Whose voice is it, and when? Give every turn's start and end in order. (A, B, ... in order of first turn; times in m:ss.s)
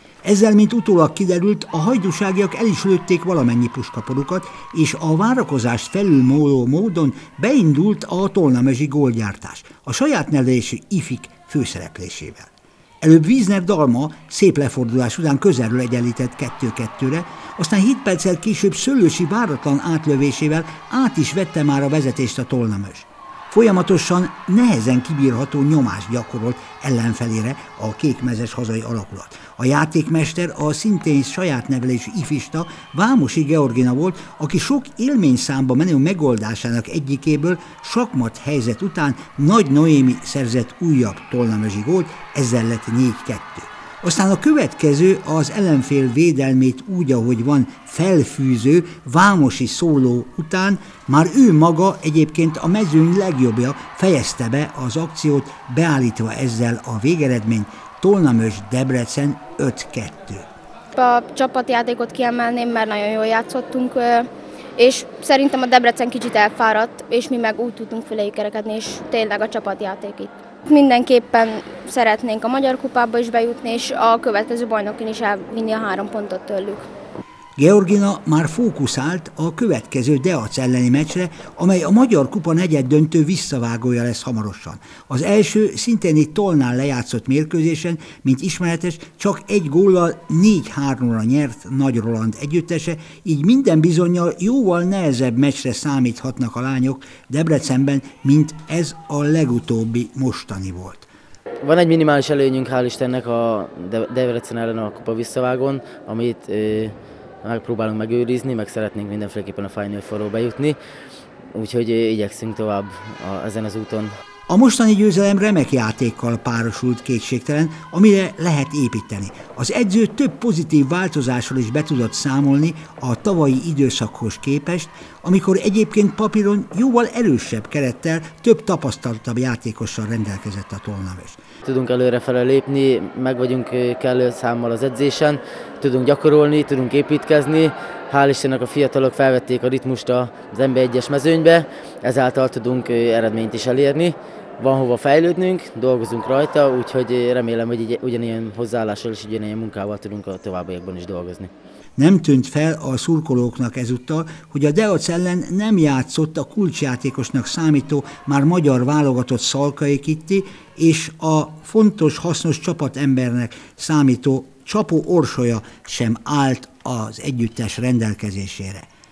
0:00.2-0:12.5 A
0:13.0-1:00.4 A
1:01.0-1:16.9 B
1:17.6-1:41.1 A
1:41.6-1:50.8 C
1:51.5-1:54.2 C
1:54.5-2:11.4 A
2:11.6-2:31.5 C
2:32.0-2:48.8 A